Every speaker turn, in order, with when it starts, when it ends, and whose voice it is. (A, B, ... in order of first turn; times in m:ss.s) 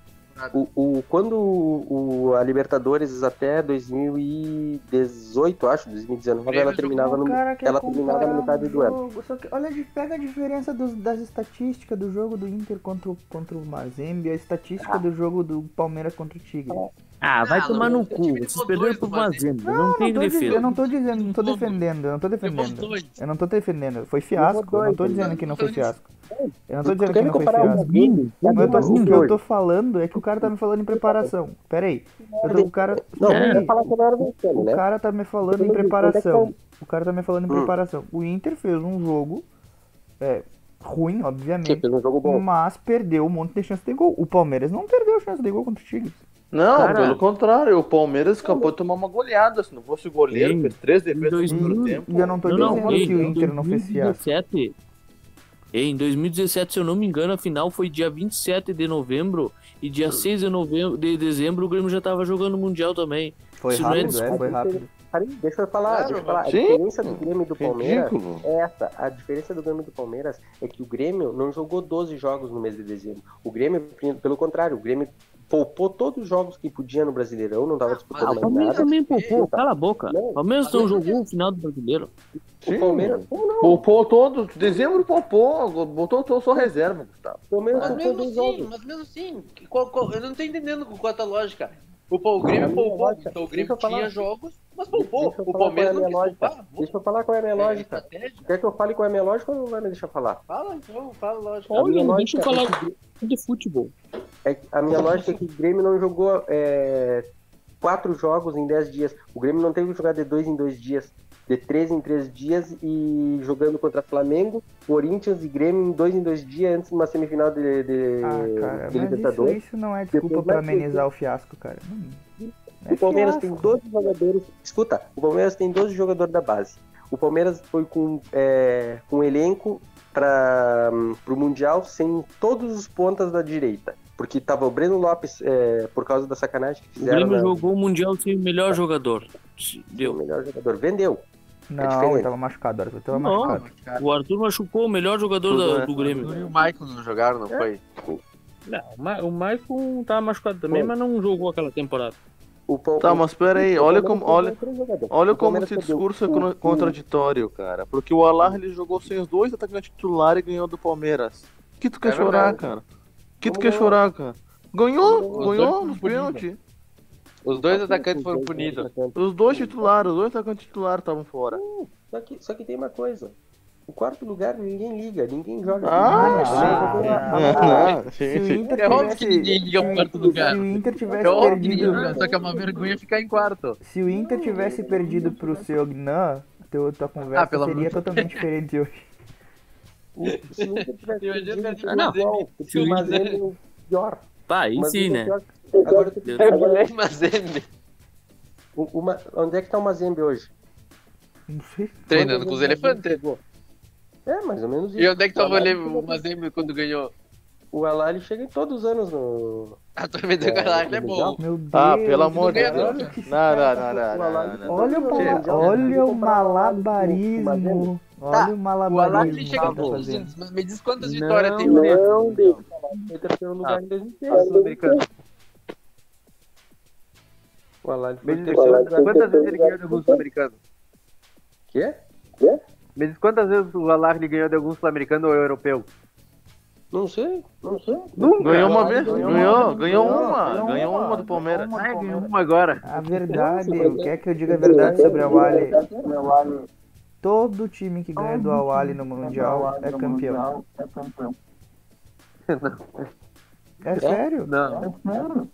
0:00.3-0:00.6 A
0:00.5-0:09.0 B
0:06.5-0:07.1 A
0:06.9-0:16.8 C
0:17.2-0:20.6 D
0:17.4-0:19.4 A
0:19.6-0:26.1 C
0:20.4-0:21.8 A
0:22.4-0:23.1 A
0:24.4-0:25.5 B
0:25.2-0:25.9 A
0:26.3-0:29.4 B
0:26.7-0:27.9 C
0:27.6-0:29.2 D
0:28.5-0:33.9 C
0:30.4-0:31.3 B
0:32.3-0:34.8 B
0:33.3-0:33.6 D
0:34.5-0:39.5 C
0:35.6-0:36.5 B
0:40.2-0:46.2 C
0:41.6-0:42.4 B
0:46.5-0:53.3 E
0:46.7-0:47.2 D
0:48.4-0:48.7 B
0:50.3-0:54.7 D
0:51.5-0:54.2 C
0:55.7-1:04.4 D
1:03.6-1:04.9 C
1:03.8-1:20.4 B
1:05.8-1:06.4 A
1:06.5-1:08.4 E
1:17.8-1:19.4 A
1:18.2-1:22.1 D
1:20.6-1:21.2 A
1:22.6-1:23.8 B
1:22.6-1:27.9 E
1:27.5-1:28.7 B
1:27.8-1:36.9 A
1:32.6-1:34.2 B
1:34.9-1:40.4 B
1:37.5-1:38.5 A
1:40.5-1:41.7 A
1:41.7-1:43.9 D
1:41.7-1:43.0 B
1:44.4-1:47.3 B
1:47.8-1:59.6 B
1:58.2-2:02.2 C
2:00.1-2:01.0 B
2:02.4-2:17.7 B
2:02.8-2:03.8 C
2:17.0-2:20.2 D
2:20.0-2:21.2 B
2:21.7-2:23.7 C
2:21.8-2:22.3 B
2:23.1-2:26.4 D
2:23.4-2:24.0 A
2:25.5-2:25.9 E
2:26.0-2:27.8 A
2:27.5-2:28.2 B
2:28.6-2:32.2 D
2:30.7-2:30.9 B
2:32.7-2:37.0 B
2:33.0-2:34.6 E
2:35.1-2:42.8 E
2:42.0-2:42.6 A
2:42.3-2:42.7 B
2:43.4-2:46.6 E
2:43.4-2:44.0 B
2:45.0-2:45.7 B
2:45.3-2:46.4 A
2:47.4-2:48.9 A
2:47.5-2:50.0 B
2:49.2-2:51.6 E
2:51.5-2:53.4 B
2:53.9-2:58.0 B
2:55.8-2:58.7 E
2:56.0-3:02.4 C
2:57.6-2:57.9 A
2:58.6-2:59.2 B
2:58.8-3:00.6 A
2:59.7-3:02.9 B
3:01.2-3:03.8 A
3:03.8-3:09.1 C
3:04.1-3:05.3 B
3:07.3-3:08.4 A
3:10.2-3:16.9 B
3:10.5-3:13.4 A
3:11.9-3:12.2 D
3:12.7-3:13.1 D
3:14.5-3:15.3 D
3:15.8-3:17.6 A
3:16.2-3:16.5 D
3:18.8-3:20.5 B
3:21.5-3:22.4 C
3:22.1-3:23.2 A
3:22.1-3:23.4 B
3:24.3-3:26.7 B
3:25.0-3:27.1 A
3:27.7-3:29.8 B
3:30.0-3:31.4 A
3:30.4-3:31.4 B
3:31.4-3:33.7 C
3:31.7-3:35.7 E
3:32.4-3:33.1 A
3:32.6-3:37.9 B
3:34.7-3:40.3 C
3:38.3-3:42.6 A
3:39.4-3:40.0 D
3:41.0-3:42.5 D
3:43.0-3:44.8 B
3:44.3-3:45.0 A
3:47.8-3:49.5 B
3:48.2-3:50.6 A
3:51.7-3:52.0 B
3:53.0-3:55.9 A
3:56.9-4:01.1 B
3:58.2-3:59.5 A
3:58.4-4:01.8 E
4:01.7-4:03.4 A
4:02.8-4:05.8 C
4:03.3-4:05.7 B
4:07.2-4:10.5 C
4:12.5-4:13.1 A
4:13.8-4:14.5 C
4:14.5-4:14.9 A